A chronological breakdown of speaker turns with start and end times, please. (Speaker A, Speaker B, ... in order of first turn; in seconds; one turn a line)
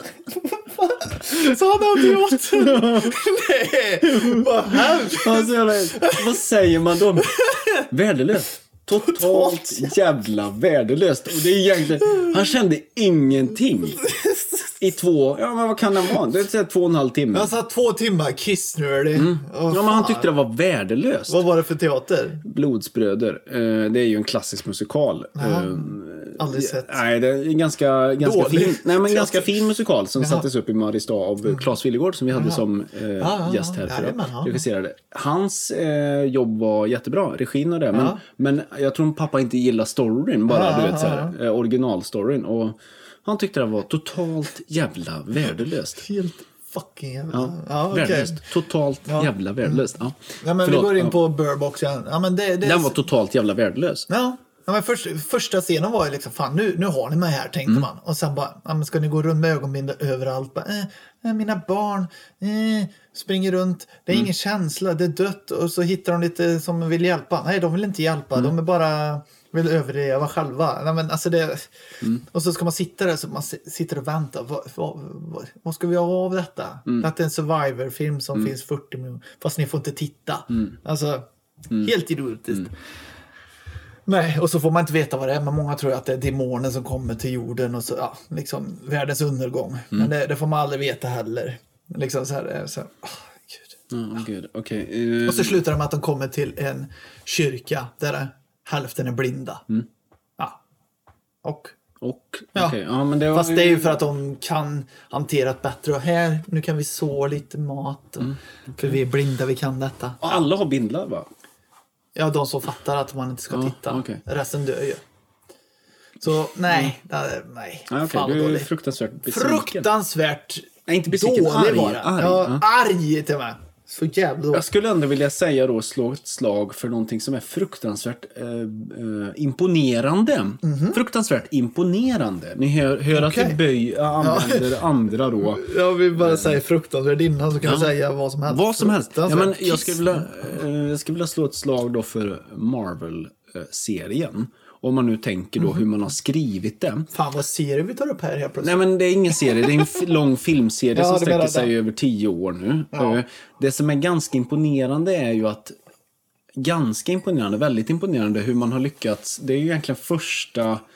Speaker A: 0.8-6.3
Speaker B: 2.0-3.2
Speaker B: 4.0-14.0
Speaker A: 7.2-7.9
Speaker A: 8.9-9.9
Speaker A: 14.0-14.8
Speaker B: 14.8-17.5
Speaker A: 17.3-20.3
Speaker B: 19.1-21.4
Speaker A: 21.3-22.4
Speaker B: 22.4-46.0
Speaker A: 25.4-27.0
Speaker A: 28.2-29.6
Speaker A: 30.2-30.4
Speaker A: 32.3-32.6
Speaker A: 33.2-34.6
Speaker A: 37.9-38.2
Speaker A: 40.5-41.3
Speaker A: 46.0-48.4
Speaker B: 47.3-51.1
Speaker A: 49.0-49.9
Speaker A: 50.4-53.0
Speaker B: 52.6-54.0
Speaker A: 54.1-82.7
Speaker A: 84.1-93.8
Speaker B: 93.9-95.6
Speaker A: 95.2-99.6
Speaker A: 101.4-101.7
Speaker B: 102.0-104.0
Speaker A: 103.3-110.4
Speaker B: 108.2-109.0
Speaker B: 110.2-111.3
Speaker A: 112.1-115.0
Speaker B: 113.5-114.2
Speaker A: 116.2-118.7
Speaker B: 117.9-119.9
Speaker A: 119.3-124.6
Speaker B: 120.9-122.6
Speaker B: 124.5-136.6
Speaker A: 130.6-131.0
Speaker A: 133.1-133.6
Speaker A: 134.2-134.8
Speaker A: 135.4-140.3
Speaker B: 137.6-137.9
Speaker B: 138.5-147.1
Speaker A: 147.1-148.8
Speaker B: 148.6-155.7
Speaker A: 149.3-149.9
Speaker A: 150.9-151.7
Speaker A: 152.9-153.2
Speaker B: 156.6-160.8